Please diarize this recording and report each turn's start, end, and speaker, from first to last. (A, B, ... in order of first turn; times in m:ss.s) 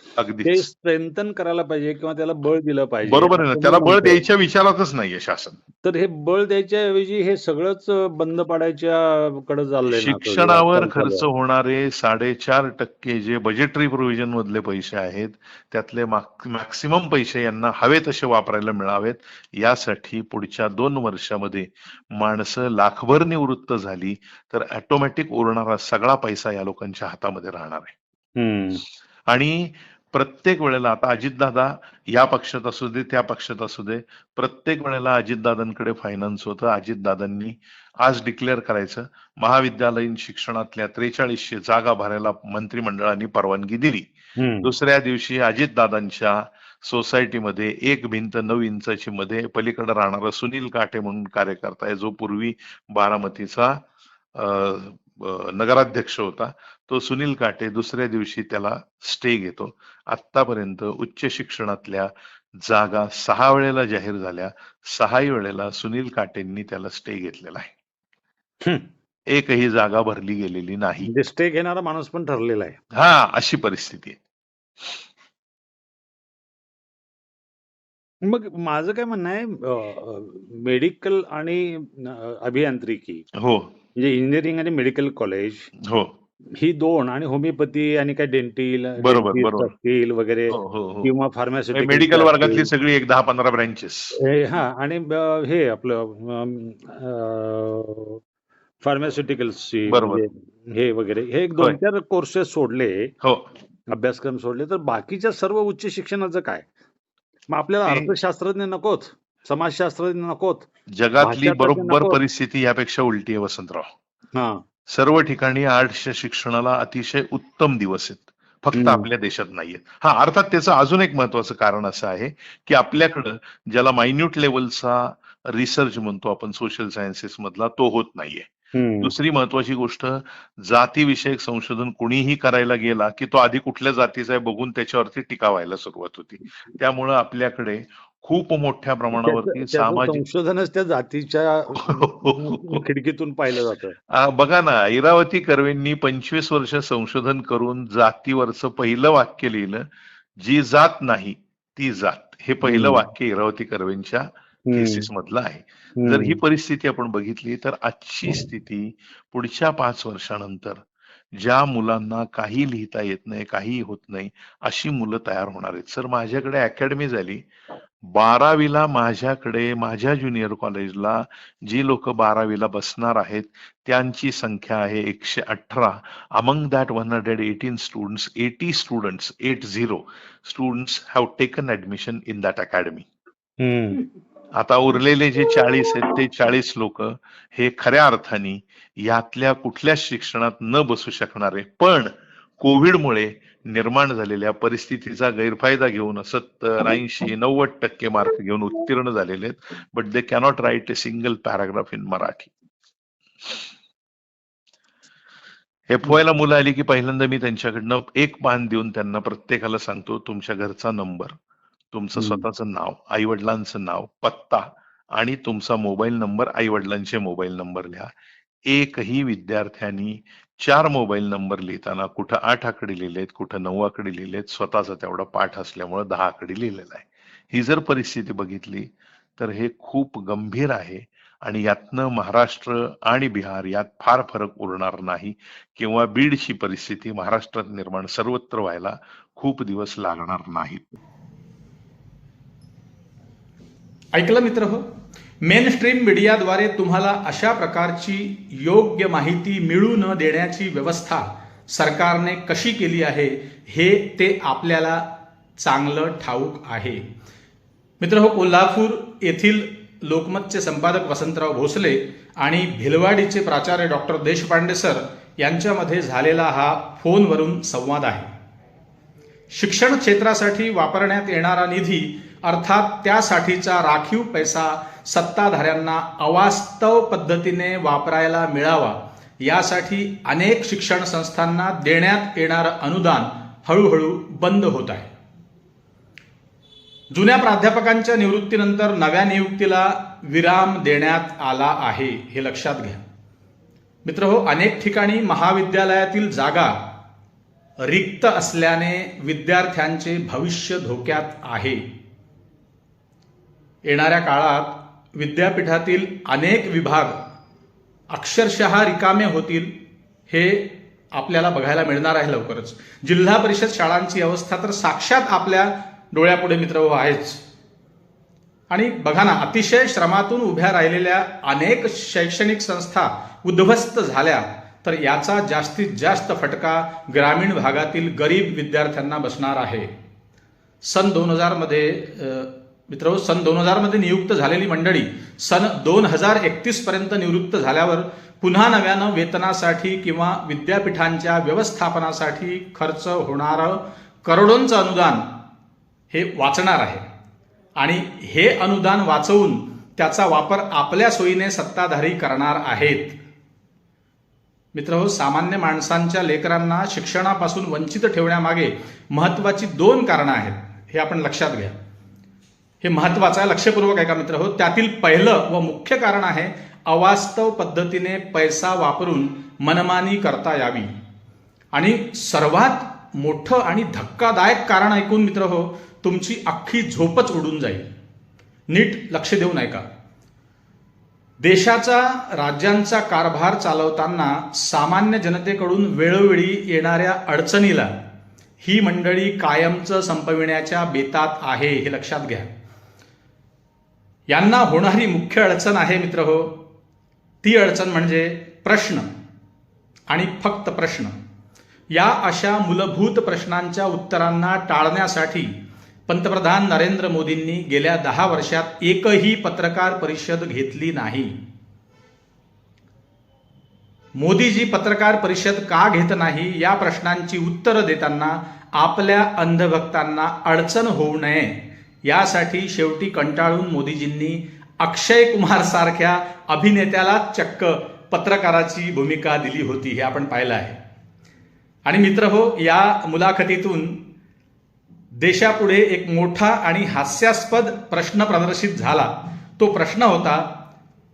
0:00.2-0:00.7 A
0:00.4-0:04.2 B
0:03.1-0:05.6 A
0:05.8-0:11.2 B
0:09.9-0:27.9 A
0:28.4-0:28.8 B
0:29.3-0:53.8 A
0:44.4-0:44.7 B
0:54.3-1:02.1 A
1:02.6-1:07.7 A
1:09.3-1:11.1 A
1:11.0-1:12.8 B
1:13.0-1:14.2 A
1:18.2-1:23.2 B
1:23.4-1:23.7 A
1:24.0-1:25.7 B
1:26.6-1:32.7 B
1:29.0-1:29.7 A
1:30.5-1:31.1 A
1:31.7-1:34.2 A
1:34.2-1:38.2 B
1:38.8-1:43.1 B
1:39.9-1:40.2 A
1:43.2-1:43.5 A
1:43.9-1:46.6 B
1:47.5-1:50.7 B
1:50.9-1:53.9 A
1:51.2-1:52.2 B
1:54.3-1:54.6 B
1:54.9-2:08.5 A
1:58.8-1:59.1 B
2:08.7-2:09.1 B
2:09.0-2:20.2 A
2:19.2-2:23.9 B
2:21.9-2:22.8 A
2:24.1-2:29.8 A
2:30.4-2:40.8 A
2:32.6-2:33.0 B
2:34.7-2:35.1 B
2:36.0-2:36.4 B
2:41.4-2:47.4 A
2:48.1-3:03.1 A
3:03.6-3:04.0 B
3:04.6-3:22.5 A
3:25.9-3:31.3 A
3:31.9-3:34.6 A
3:32.2-3:32.4 B
3:35.2-3:38.1 A
3:38.7-4:00.9 A
4:04.1-4:04.8 C
4:05.4-4:15.0 C
4:15.6-4:17.0 C
4:18.0-4:28.3 C
4:29.5-4:45.1 C
4:47.1-4:53.0 C
4:54.0-4:56.7 C
4:57.8-5:01.8 C
5:03.8-5:07.1 C
5:08.1-5:09.7 C
5:10.3-5:17.4 C
5:18.7-5:29.9 C
5:30.8-5:45.2 C
5:46.1-5:47.0 C
5:47.8-5:53.2 C
5:54.7-6:01.7 C
6:02.8-6:10.9 C
6:11.7-6:17.9 C
6:18.7-6:19.8 C
6:21.4-6:27.9 C
6:28.6-6:32.5 C
6:34.3-6:36.5 C
6:37.4-6:39.0 C
6:40.1-6:41.1 C
6:41.9-6:45.5 C
6:46.1-6:51.3 C
6:54.2-7:10.8 C
7:11.8-7:14.0 C
7:15.2-7:20.4 C